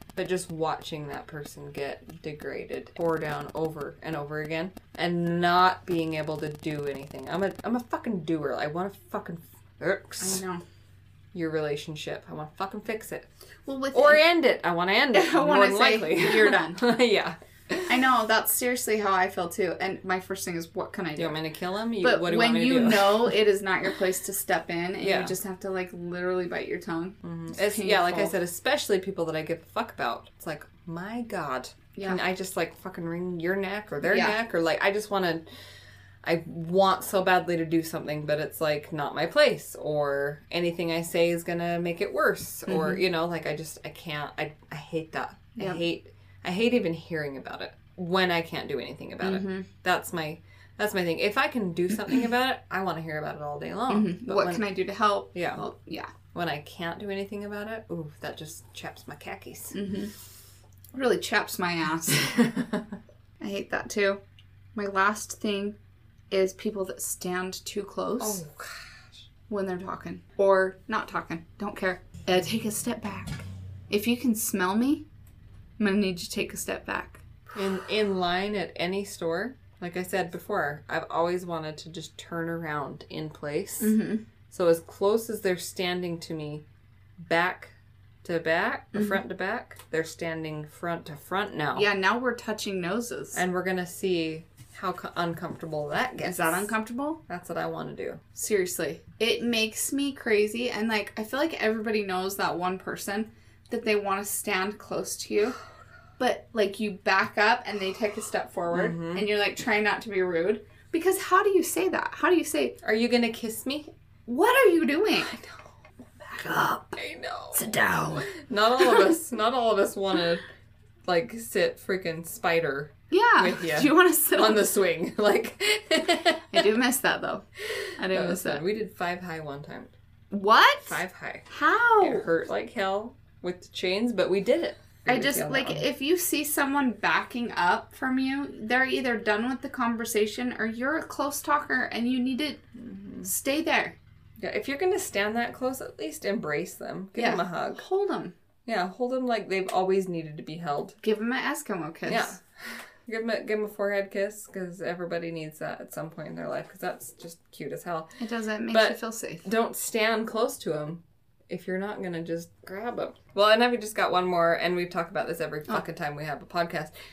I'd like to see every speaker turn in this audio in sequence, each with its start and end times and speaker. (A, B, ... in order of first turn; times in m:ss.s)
0:00.2-0:10.4 A
0:10.2-0:10.6 B
0:11.3-0:13.3 A
0:13.6-0:14.2 B
0:13.9-0:18.1 A
0:15.1-0:16.8 B
0:17.9-0:21.4 B
0:21.2-0:23.4 A
0:22.0-0:28.3 B
0:25.0-0:25.3 A
0:27.2-0:35.4 A
0:31.9-0:32.2 B
0:34.0-0:34.4 B
0:36.2-0:54.6 A
0:42.7-0:43.0 B
0:45.6-0:45.8 B
0:49.2-0:49.7 B
0:53.9-0:56.1 B
0:55.3-0:55.6 A
0:56.3-0:59.8 A
0:59.7-1:00.1 B
1:00.9-1:02.3 B
1:03.4-1:04.2 B
1:04.7-1:05.8 B
1:06.3-1:08.4 B
1:08.2-1:08.7 A
1:09.5-1:15.0 B
1:15.8-1:17.2 B
1:17.5-1:24.0 A
1:23.8-1:24.2 B
1:24.5-1:26.6 A
1:27.2-1:27.7 A
1:28.2-1:31.9 A
1:28.9-1:29.2 B
1:31.7-1:33.4 B
1:33.3-1:36.7 A
1:36.2-1:37.2 B
1:37.3-1:38.2 A
1:38.3-1:45.6 B
1:46.2-1:52.8 B
1:48.7-1:49.2 A
1:52.8-1:53.9 A
1:54.3-1:55.4 B
1:56.2-1:57.0 B
1:57.0-2:00.4 A
1:57.5-1:58.3 B
1:58.8-1:59.1 B
2:01.0-2:06.7 A
2:03.1-2:04.7 B
2:06.5-2:07.4 B
2:08.0-2:08.6 B
2:08.0-2:09.9 A
2:10.3-2:12.3 B
2:10.9-2:11.5 A
2:12.0-2:15.8 A
2:15.0-2:22.6 B
2:22.8-2:23.3 A
2:23.2-2:24.0 B
2:24.4-2:27.8 A
2:27.2-2:28.3 B
2:28.6-2:31.0 A
2:31.0-2:32.4 B
2:32.1-2:38.1 A
2:38.2-2:39.4 B
2:38.7-2:46.9 A